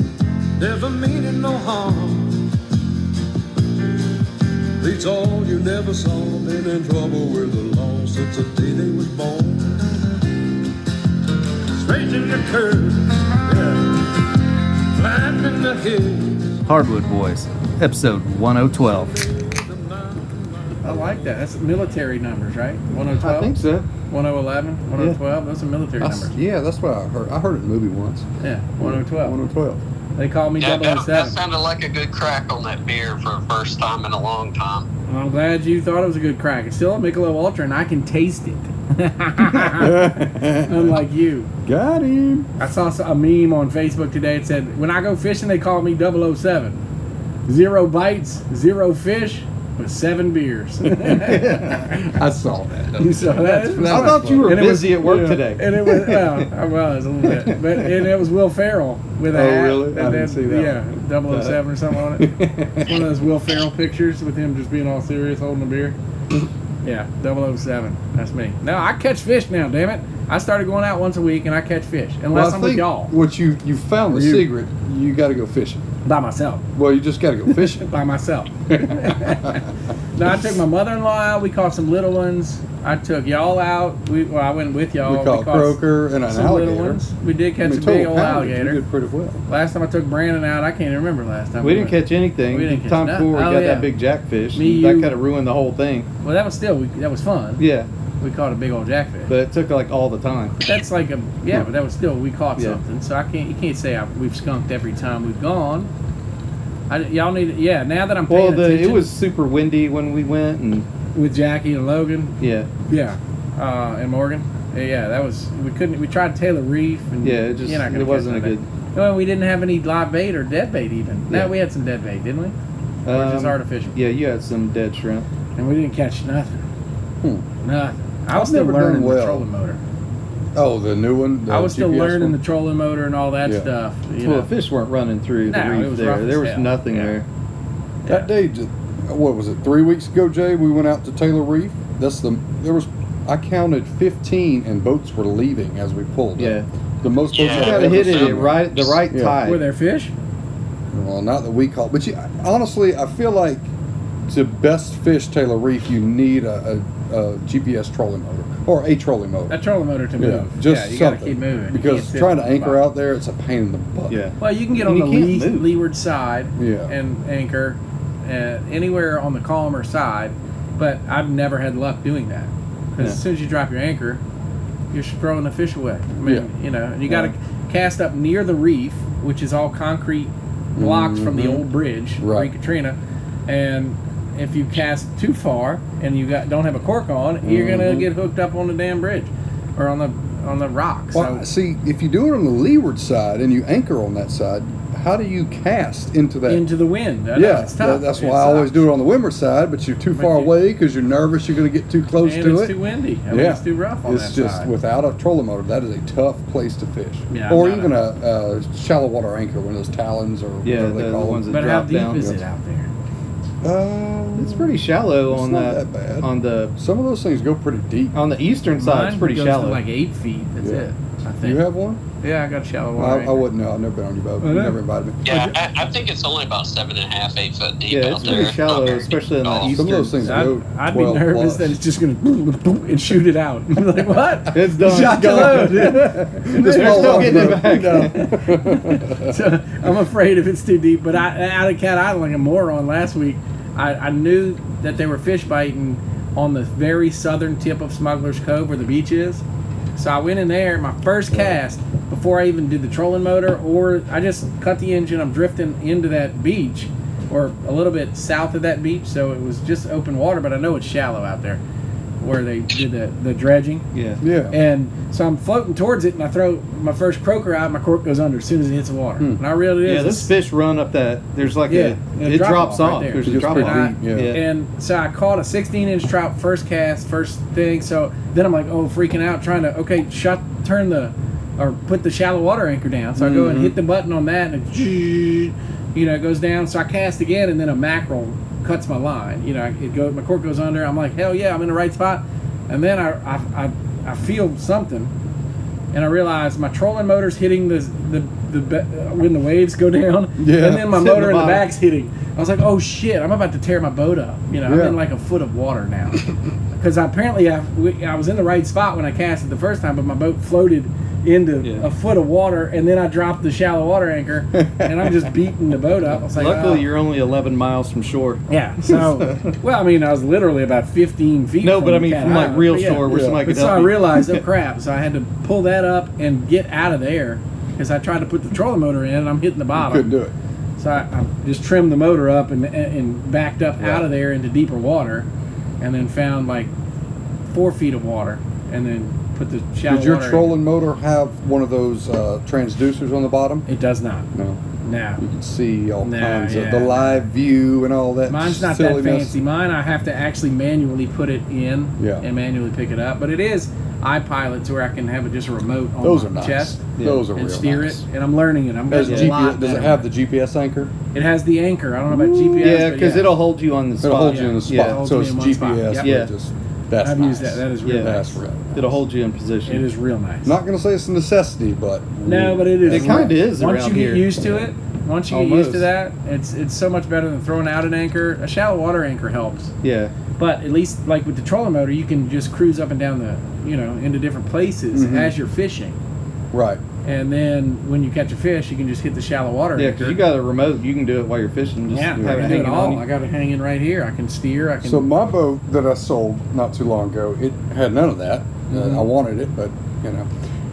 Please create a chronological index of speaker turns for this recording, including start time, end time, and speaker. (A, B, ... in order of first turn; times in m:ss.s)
0:00.6-0:02.5 A
0:04.8-0:10.3 A
0:11.7-0:16.6 A
0:16.6-0:19.1 B
0:18.6-0:21.4 A
0:20.8-0:23.6 C
0:23.1-0:23.9 B
0:24.1-0:26.3 C
0:26.0-0:28.3 D
0:28.4-0:29.4 C
0:28.8-0:29.8 D
0:30.2-0:31.4 C
0:30.6-0:34.9 E
0:35.1-0:41.5 C
0:39.4-0:41.0 D
0:41.6-0:42.5 D
0:42.6-0:46.8 C
0:47.5-0:52.1 C
0:51.1-0:51.8 B
0:51.5-0:55.4 D
0:53.0-1:06.0 C
0:53.8-0:56.5 B
0:57.2-0:57.9 B
0:59.3-1:00.8 D
1:01.3-1:01.6 B
1:02.2-1:03.0 D
1:06.8-1:13.1 C
1:12.3-1:15.8 D
1:14.1-1:14.4 C
1:16.0-1:16.6 C
1:16.8-1:17.9 D
1:17.5-1:28.8 C
1:18.7-1:19.6 D
1:25.0-1:27.0 D
1:27.6-1:29.4 D
1:29.5-1:33.9 C
1:31.6-1:36.1 B
1:34.5-1:35.2 C
1:36.2-1:37.6 C
1:37.6-1:37.9 B
1:38.2-1:39.3 C
1:39.3-1:40.5 B
1:40.6-1:45.9 C
1:46.9-1:49.1 C
1:48.3-1:50.8 B
1:51.1-2:02.5 C
1:52.4-1:52.7 B
1:57.2-1:58.6 B
2:03.0-2:05.3 B
2:03.1-2:04.0 C
2:05.6-2:06.6 C
2:07.6-2:09.8 C
2:08.3-2:09.4 D
2:10.5-2:12.4 D
2:11.5-2:14.5 C
2:13.4-2:13.7 D
2:14.2-2:17.2 B
2:15.5-2:17.2 C
2:18.1-2:29.4 D
2:26.4-2:26.7 B
2:27.3-2:29.0 E
2:27.4-2:29.6 B
2:29.4-2:30.1 C
2:30.9-2:33.7 D
2:34.3-2:39.6 D
2:39.5-2:42.8 C
2:40.2-2:44.2 D
2:44.1-2:45.7 B
2:44.4-2:54.2 C
2:46.6-2:46.9 D
2:54.9-3:11.4 C
2:56.2-2:56.5 D
2:57.1-2:57.3 D
3:00.8-3:01.6 D
3:02.2-3:02.5 D
3:07.4-3:08.1 D
3:11.1-3:16.6 D
3:16.5-3:18.8 C
3:17.3-3:22.8 D
3:20.1-3:20.5 C
3:22.2-3:24.7 C
3:23.3-3:31.4 D
3:27.3-3:27.9 C
3:30.6-3:32.3 B
3:31.5-3:32.9 C
3:32.1-3:32.4 D
3:33.6-3:38.2 D
3:34.4-3:36.7 B
3:38.1-3:39.8 B
3:38.8-3:41.6 C
3:40.6-3:40.8 D
3:41.4-3:42.0 D
3:42.2-3:43.4 C
3:43.0-3:45.5 D
3:44.4-3:44.8 C
3:45.2-3:49.8 E
3:47.9-3:50.5 B
3:49.6-3:51.8 D
3:50.2-4:09.4 C
3:54.5-3:58.2 B
3:56.4-3:59.4 D
4:10.0-4:21.6 C
4:11.3-4:11.6 D
4:22.2-4:23.9 C
4:23.9-4:24.2 B
4:24.2-4:24.6 D
4:24.5-4:30.3 C
4:29.8-4:34.4 B
4:31.7-4:55.1 C
4:33.2-4:34.4 D
4:43.2-4:43.7 D
4:55.9-5:06.2 C
5:00.4-5:00.9 D
5:00.8-5:01.6 B
5:04.6-5:05.0 D
5:06.8-5:16.8 C
5:14.6-5:15.2 D
5:16.2-5:19.5 B
5:18.5-5:30.1 C
5:21.6-5:24.2 B
5:23.0-5:23.4 D
5:29.7-5:30.3 D
5:30.8-5:35.3 C
5:33.8-5:34.1 D
5:35.8-5:36.7 C
5:37.5-5:40.6 C
5:39.9-5:43.7 D
5:43.7-5:44.3 C
5:44.3-5:44.6 D
5:44.8-5:45.2 C
5:45.2-5:49.4 D
5:46.0-5:47.2 C
5:48.3-6:00.0 C
5:52.0-5:52.2 D
5:56.0-5:58.0 D
5:57.0-5:57.2 B
5:58.9-6:00.9 D
5:59.0-5:59.3 B
6:01.1-6:03.4 C
6:02.1-6:02.9 D
6:02.6-6:05.0 B
6:04.0-6:08.9 D
6:04.2-6:06.1 C
6:06.0-6:06.3 B
6:07.0-6:08.4 C
6:07.8-6:08.1 B
6:08.7-6:09.8 B
6:09.6-6:10.5 C
6:10.4-6:13.4 D
6:12.2-6:19.7 C
6:12.9-6:14.4 B
6:15.3-6:15.9 B
6:19.8-6:20.1 B
6:20.4-6:26.0 C
6:24.9-6:25.3 D
6:26.5-6:26.8 D
6:27.0-6:30.2 C
6:29.8-6:33.0 B
6:31.9-6:35.3 C
6:32.1-6:32.7 D
6:34.8-6:40.3 D